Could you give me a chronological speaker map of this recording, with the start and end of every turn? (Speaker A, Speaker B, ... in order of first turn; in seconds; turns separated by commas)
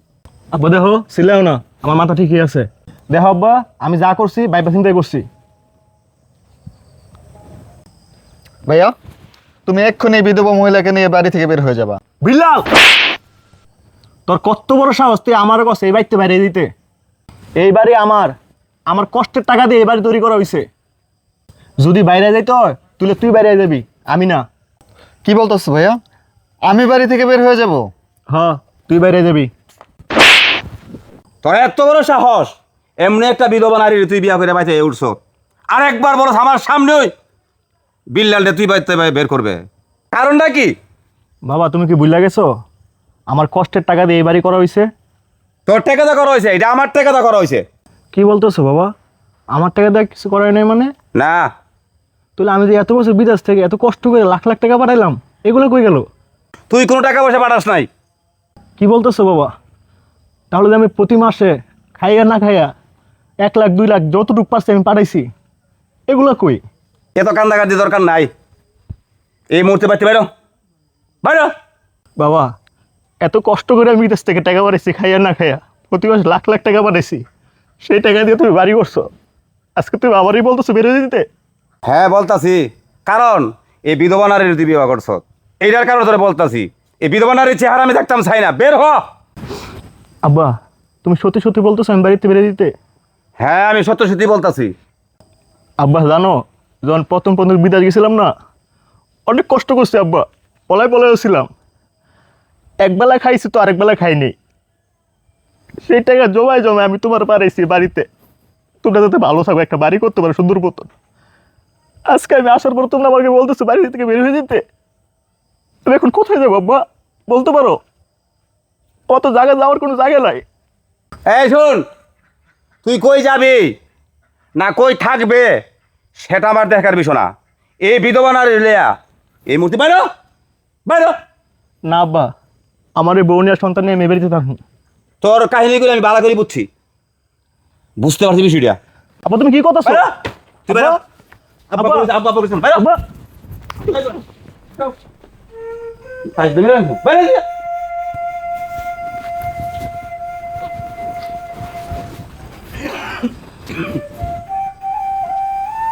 Speaker A: 0.5-5.3, Speaker B: 8.7-8.9, Speaker B: 9.7-12.0, Speaker A: 12.2-12.7, Speaker A: 14.3-16.7, Speaker A: 17.6-18.4, Speaker A: 18.9-20.7, Speaker A: 21.8-24.4, Speaker B: 25.2-26.0, Speaker B: 26.7-27.9, Speaker A: 28.3-29.5, Speaker C: 31.4-35.2, Speaker C: 35.7-37.1, Speaker C: 38.1-40.7, Speaker A: 41.5-42.5, Speaker A: 43.3-44.9, Speaker C: 45.7-47.6, Speaker A: 48.1-48.9, Speaker A: 49.5-50.9, Speaker C: 51.1-51.5, Speaker A: 52.4-56.1, Speaker C: 56.7-57.9, Speaker A: 58.8-59.5, Speaker A: 60.5-62.7, Speaker A: 63.4-65.3, Speaker A: 66.1-66.6, Speaker C: 67.2-68.3, Speaker C: 69.5-70.3, Speaker C: 71.2-71.5, Speaker A: 72.2-72.5, Speaker A: 73.2-77.2, Speaker A: 77.8-79.1, Speaker A: 79.8-81.3, Speaker C: 81.9-89.0, Speaker A: 90.2-90.5, Speaker A: 91.0-92.7, Speaker C: 93.4-94.7, Speaker A: 95.8-98.3, Speaker A: 99.3-101.5, Speaker A: 102.8-104.3, Speaker A: 105.9-108.1, Speaker A: 108.8-110.9, Speaker A: 112.1-114.6, Speaker A: 115.9-117.8, Speaker A: 119.1-120.5, Speaker C: 121.3-121.8, Speaker C: 122.8-123.7, Speaker C: 124.6-125.6, Speaker C: 126.2-127.3, Speaker C: 127.8-128.9, Speaker C: 129.5-130.1, Speaker C: 130.9-131.2, Speaker A: 131.9-132.3, Speaker A: 133.0-134.6, Speaker C: 135.2-136.7, Speaker C: 138.0-138.8, Speaker A: 139.3-140.1, Speaker C: 140.7-141.0, Speaker A: 140.7-141.0, Speaker C: 141.7-142.8, Speaker A: 141.8-142.1, Speaker C: 143.9-144.2, Speaker C: 146.3-147.4